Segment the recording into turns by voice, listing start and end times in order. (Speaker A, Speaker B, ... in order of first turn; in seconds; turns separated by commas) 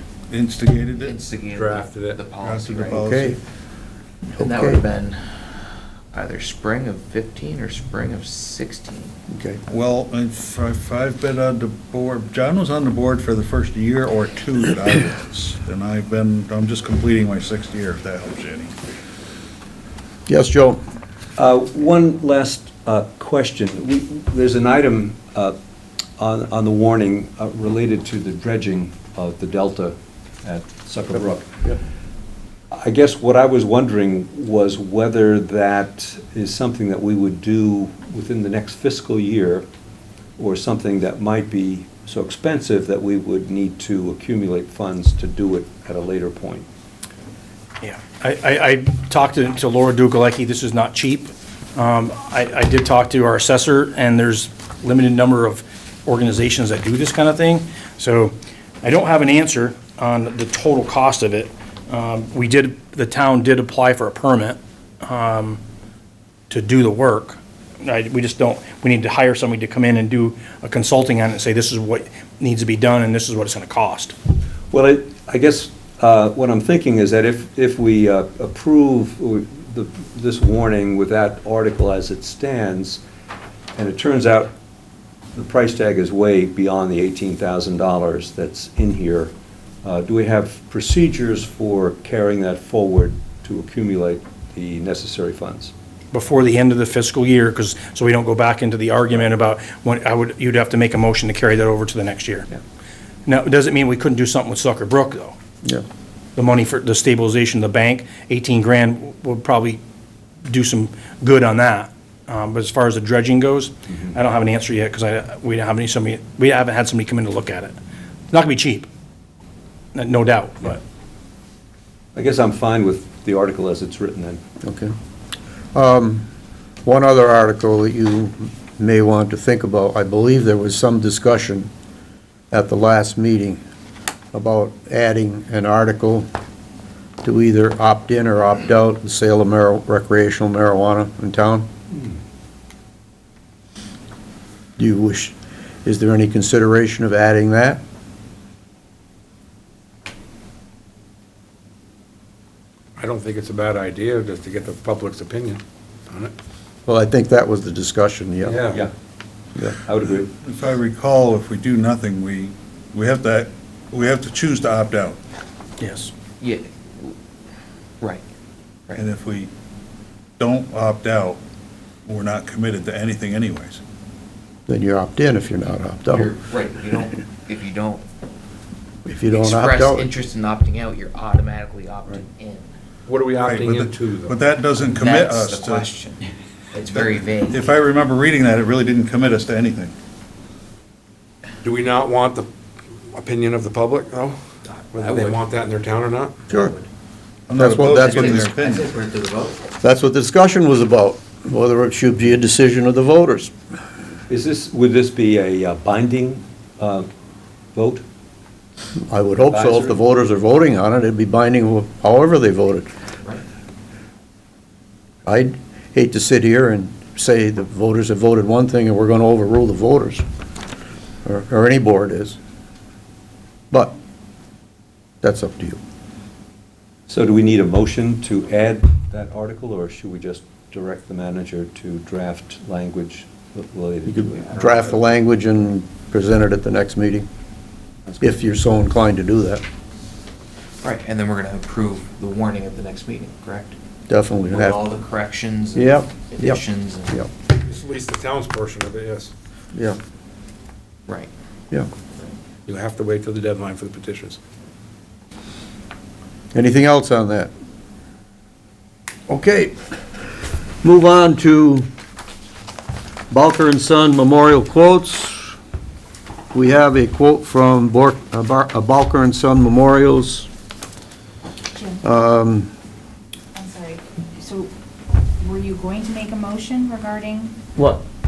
Speaker A: 0.3-1.2, Speaker B: 0.9-3.0, Speaker C: 1.5-2.2, Speaker A: 2.3-3.4, Speaker D: 2.9-3.4, Speaker B: 4.3-9.2, Speaker D: 4.4-4.8, Speaker D: 9.3-9.6, Speaker A: 9.7-18.7, Speaker D: 20.3-20.8, Speaker E: 21.4-25.6, Speaker E: 26.2-31.5, Speaker E: 32.7-39.6, Speaker E: 40.4-46.7, Speaker F: 47.8-65.6, Speaker F: 66.5-74.1, Speaker E: 74.7-83.0, Speaker E: 83.7-84.5, Speaker E: 85.3-89.3, Speaker E: 89.8-95.7, Speaker F: 96.1-102.5, Speaker F: 103.2-105.3, Speaker F: 106.3-109.8, Speaker F: 110.4-117.8, Speaker F: 118.3-118.9, Speaker F: 119.9-120.8, Speaker E: 122.1-124.4, Speaker D: 124.6-124.9, Speaker D: 125.7-126.2, Speaker D: 126.8-131.7, Speaker D: 132.5-133.6, Speaker D: 134.3-136.3, Speaker D: 137.2-141.7, Speaker D: 144.8-145.3, Speaker D: 145.8-147.8, Speaker C: 153.0-156.3, Speaker D: 156.8-158.6, Speaker C: 158.4-158.8, Speaker E: 159.6-160.3, Speaker A: 160.4-165.2, Speaker F: 165.8-166.1, Speaker B: 166.4-167.2, Speaker A: 169.0-169.5, Speaker A: 170.4-171.4, Speaker A: 172.1-173.8, Speaker D: 174.7-176.3, Speaker B: 176.1-178.0, Speaker D: 179.1-180.1, Speaker B: 179.3-182.7, Speaker C: 183.1-184.4, Speaker A: 183.4-185.9, Speaker B: 184.9-187.7, Speaker A: 186.9-189.9, Speaker C: 191.6-192.5, Speaker C: 193.1-194.4, Speaker C: 194.9-196.5, Speaker B: 194.9-195.3, Speaker D: 196.5-196.7, Speaker A: 197.5-198.9, Speaker D: 197.5-198.5, Speaker B: 197.8-199.7, Speaker D: 199.8-203.5, Speaker E: 204.3-207.1, Speaker E: 207.7-208.0, Speaker D: 209.0-212.9, Speaker E: 209.5-210.0, Speaker D: 215.2-220.2, Speaker D: 221.2-222.4, Speaker D: 225.2-225.8, Speaker E: 227.1-234.7, Speaker D: 234.1-237.3, Speaker B: 234.7-235.0, Speaker D: 238.2-239.6, Speaker B: 240.8-243.8, Speaker D: 244.1-244.8, Speaker B: 244.5-247.2, Speaker D: 245.7-247.3, Speaker C: 247.6-249.3, Speaker B: 251.1-251.3, Speaker C: 252.7-254.4, Speaker D: 256.5-257.5, Speaker D: 259.3-259.7, Speaker D: 260.8-261.9, Speaker D: 263.3-265.5, Speaker D: 266.5-270.5, Speaker G: 271.7-272.0, Speaker D: 272.0-272.7, Speaker G: 273.5-274.7, Speaker G: 275.4-277.6, Speaker D: 277.8-278.0